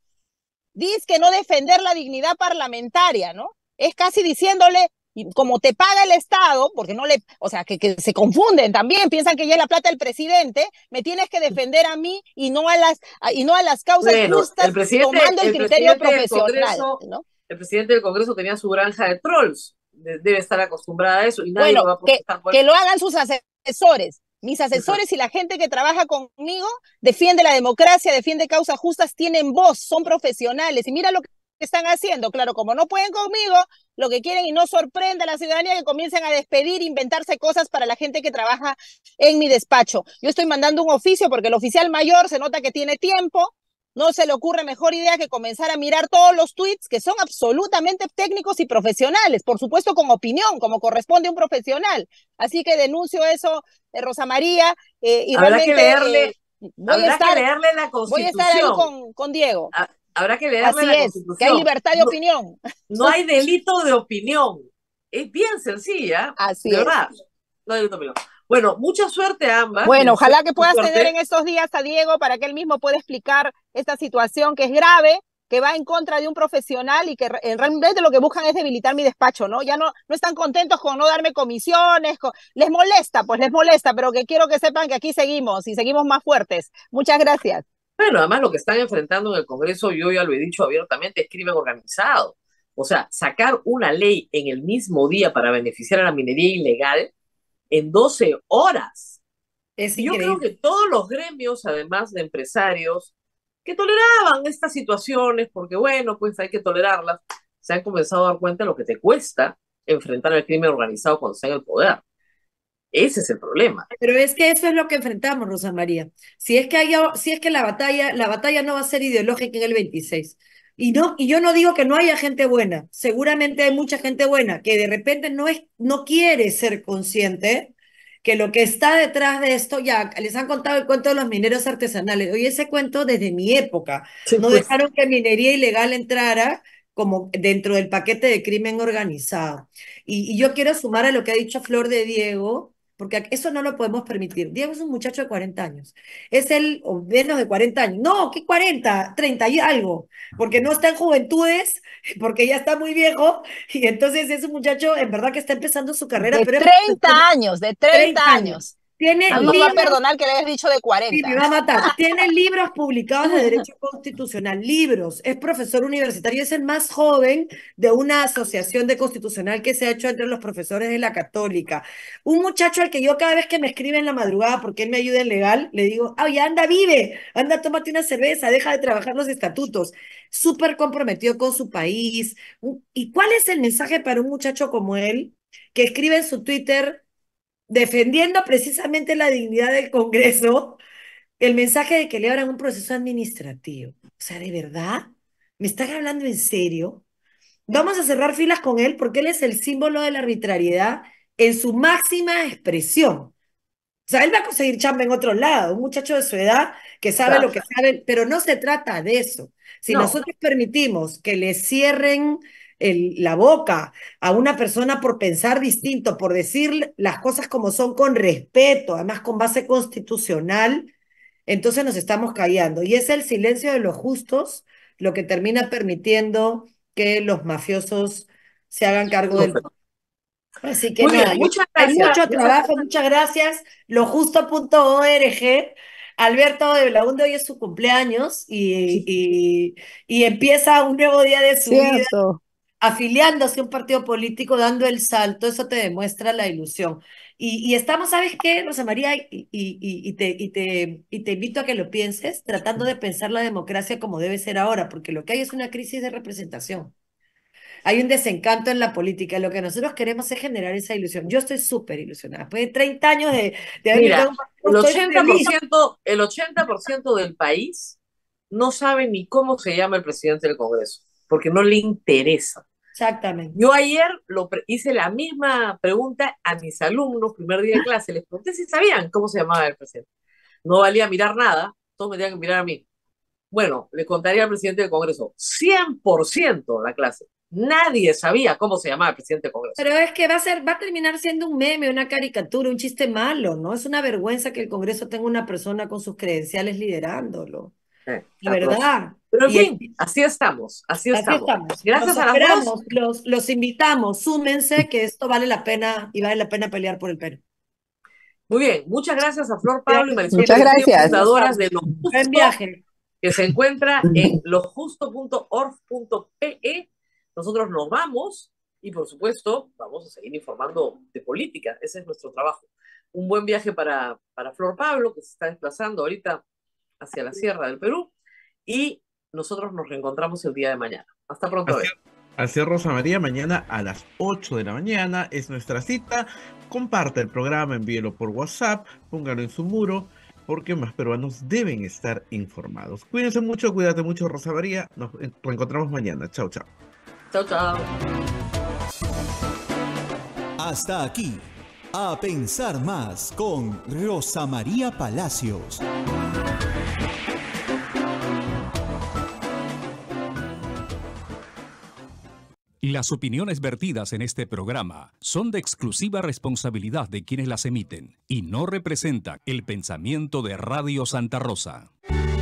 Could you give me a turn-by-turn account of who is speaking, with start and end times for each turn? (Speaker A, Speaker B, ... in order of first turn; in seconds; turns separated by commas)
Speaker A: 0.8-17.2, Speaker B: 14.0-22.6, Speaker A: 21.6-57.4, Speaker B: 55.3-56.3, Speaker B: 56.9-58.9, Speaker A: 58.1-59.7, Speaker B: 59.7-62.1, Speaker A: 60.6-63.1, Speaker B: 62.9-67.1, Speaker A: 66.4-66.9, Speaker B: 67.7-71.1, Speaker A: 69.8-87.6, Speaker B: 88.0-97.1, Speaker B: 97.7-99.2, Speaker C: 99.8-100.4, Speaker B: 100.0-103.1, Speaker B: 103.7-112.0, Speaker B: 112.9-113.9, Speaker C: 114.0-127.7, Speaker C: 128.2-157.2, Speaker B: 134.3-134.7, Speaker A: 156.2-158.7, Speaker C: 157.9-160.0, Speaker B: 159.3-159.9, Speaker A: 159.3-162.2, Speaker C: 161.1-187.0, Speaker A: 163.2-163.6, Speaker C: 187.7-190.8, Speaker C: 191.4-197.0, Speaker C: 197.7-203.3, Speaker C: 204.1-220.9, Speaker B: 207.3-207.6, Speaker B: 209.9-210.2, Speaker C: 221.5-229.7, Speaker B: 229.3-229.6, Speaker C: 230.6-242.1, Speaker B: 231.0-232.7, Speaker A: 241.7-242.4, Speaker C: 242.8-256.9, Speaker C: 257.9-265.5, Speaker B: 263.9-268.0, Speaker B: 268.5-272.6, Speaker C: 272.9-273.6, Speaker B: 273.6-280.1, Speaker B: 280.6-282.8, Speaker B: 283.5-289.8, Speaker C: 289.8-297.7, Speaker B: 298.1-302.7, Speaker C: 298.4-299.8, Speaker C: 301.1-307.4, Speaker B: 308.5-312.5, Speaker C: 309.9-312.8, Speaker A: 310.3-311.1, Speaker B: 313.2-326.4, Speaker B: 327.0-328.1, Speaker B: 328.7-331.9, Speaker D: 331.7-346.7, Speaker B: 347.3-347.9, Speaker E: 350.6-355.8, Speaker F: 362.8-371.9